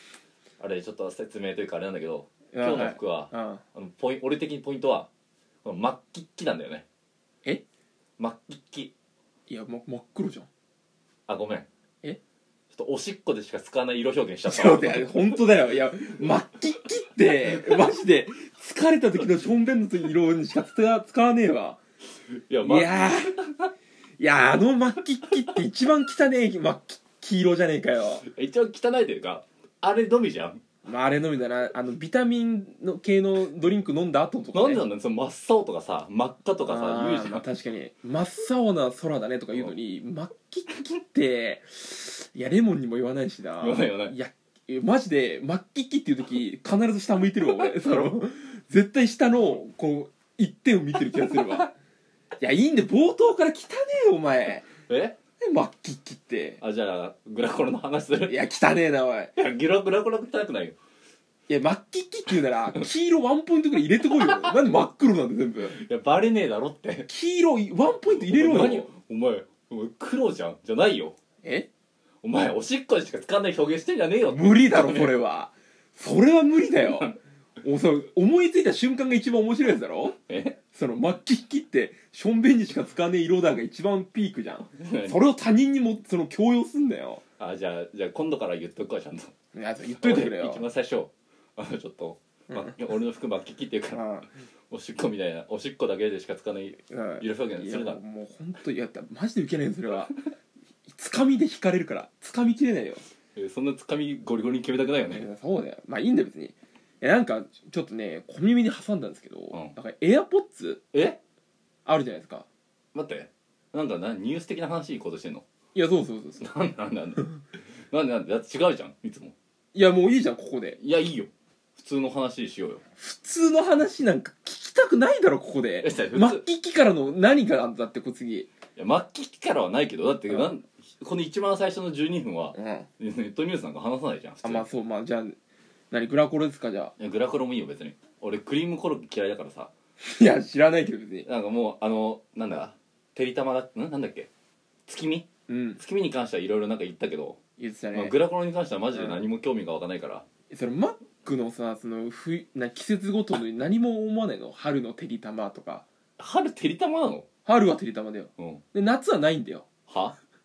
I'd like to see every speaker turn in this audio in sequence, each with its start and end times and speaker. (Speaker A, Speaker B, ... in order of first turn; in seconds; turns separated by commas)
Speaker A: 0.6-5.1, Speaker B: 2.5-3.6, Speaker A: 5.6-6.8, Speaker A: 8.2-8.9, Speaker B: 9.5-10.5, Speaker A: 11.3-11.7, Speaker A: 12.7-15.4, Speaker B: 14.4-21.8, Speaker A: 22.3-23.7, Speaker B: 22.6-23.4, Speaker B: 24.2-28.2, Speaker A: 28.2-30.6, Speaker B: 30.8-34.8, Speaker A: 34.5-37.4, Speaker B: 36.6-51.7, Speaker A: 43.6-44.1, Speaker A: 47.6-48.1, Speaker A: 51.3-51.6, Speaker B: 52.4-54.6, Speaker A: 54.9-55.1, Speaker B: 55.4-56.6, Speaker A: 56.6-58.4, Speaker B: 58.2-59.3, Speaker A: 59.4-60.8, Speaker B: 61.5-65.8, Speaker A: 64.1-64.6, Speaker A: 65.7-67.1, Speaker B: 67.1-68.9, Speaker A: 68.1-71.1, Speaker B: 71.4-71.7, Speaker A: 72.2-75.2, Speaker B: 74.3-80.1, Speaker A: 76.8-77.2, Speaker A: 80.3-80.6, Speaker B: 80.7-87.2, Speaker A: 84.8-85.2, Speaker A: 87.4-89.3, Speaker B: 89.5-90.7, Speaker A: 89.8-94.0, Speaker B: 92.5-92.8, Speaker B: 93.9-94.3, Speaker A: 94.7-98.0, Speaker B: 96.8-100.1, Speaker B: 100.9-103.0, Speaker A: 103.3-105.3, Speaker B: 105.1-110.8, Speaker A: 110.9-111.2, Speaker B: 111.8-112.5, Speaker A: 112.9-115.4, Speaker B: 115.7-116.4, Speaker A: 116.4-117.2, Speaker A: 117.9-119.3, Speaker B: 119.7-120.8, Speaker A: 120.8-122.8, Speaker B: 123.0-128.5, Speaker A: 125.8-126.4, Speaker A: 128.8-134.6, Speaker B: 132.5-132.9, Speaker B: 134.4-135.3, Speaker B: 135.9-136.9, Speaker A: 137.0-139.7, Speaker B: 140.0-141.3, Speaker A: 141.2-144.3, Speaker A: 144.9-147.4, Speaker B: 145.5-145.8, Speaker B: 147.6-148.2, Speaker A: 147.9-150.2, Speaker B: 148.9-149.2, Speaker B: 150.5-155.8, Speaker A: 156.2-157.2, Speaker B: 157.4-159.7, Speaker A: 159.9-160.2